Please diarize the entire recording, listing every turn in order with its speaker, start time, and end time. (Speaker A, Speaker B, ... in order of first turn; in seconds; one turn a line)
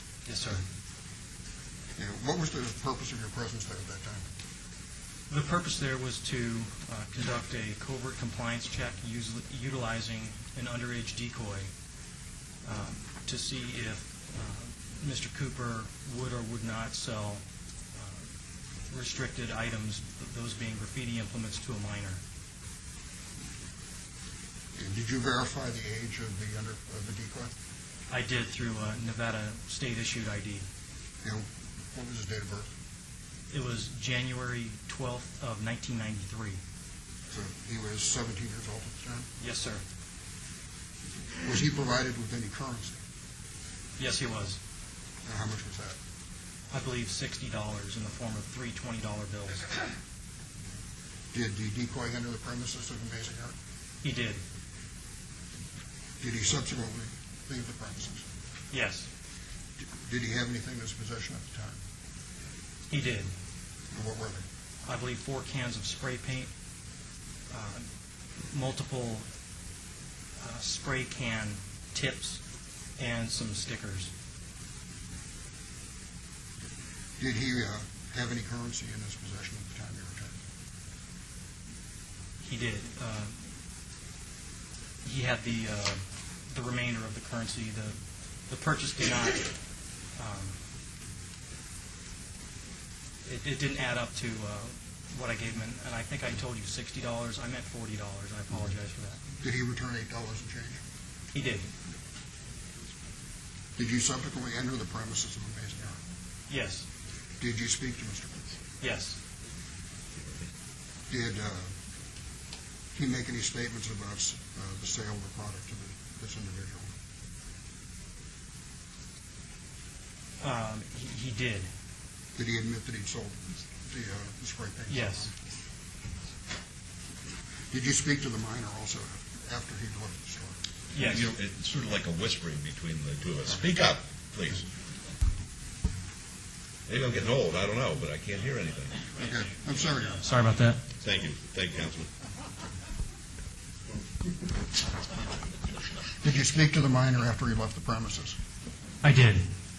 Speaker A: 0.2-0.6
Speaker B: 2.0-4.3
Speaker A: 5.3-11.7
Speaker A: 12.6-17.4
Speaker A: 17.9-18.2
Speaker A: 18.9-22.2
Speaker B: 24.8-27.5
Speaker A: 28.1-30.6
Speaker B: 31.2-32.7
Speaker A: 33.5-36.6
Speaker B: 37.3-39.3
Speaker A: 39.4-39.8
Speaker B: 41.4-43.0
Speaker A: 44.0-44.6
Speaker B: 45.2-46.0
Speaker A: 46.7-49.6
Speaker B: 51.3-53.5
Speaker A: 54.0-54.4
Speaker B: 56.2-58.3
Speaker A: 58.7-59.1
Speaker B: 59.8-61.8
Speaker A: 62.9-63.3
Speaker B: 63.9-64.5
Speaker A: 64.8-66.5
Speaker A: 67.5-67.8
Speaker A: 68.5-69.2
Speaker A: 70.4-72.4
Speaker A: 73.0-74.1
Speaker B: 77.2-80.4
Speaker A: 82.4-83.4
Speaker A: 85.0-88.0
Speaker A: 88.5-89.5
Speaker A: 90.2-90.6
Speaker A: 93.2-99.2
Speaker B: 99.4-100.8
Speaker A: 101.3-101.7
Speaker B: 103.8-106.0
Speaker A: 106.5-106.8
Speaker B: 107.4-108.5
Speaker A: 108.8-109.2
Speaker B: 111.1-111.8
Speaker B: 112.9-116.9
Speaker A: 120.4-121.7
Speaker B: 122.3-125.3
Speaker A: 124.9-125.3
Speaker B: 127.7-130.6
Speaker A: 130.9-131.3
Speaker C: 131.0-134.7
Speaker C: 136.9-139.1
Speaker B: 139.2-140.2
Speaker A: 140.2-140.8
Speaker C: 141.0-142.1
Speaker B: 146.2-148.4
Speaker A: 149.0-149.5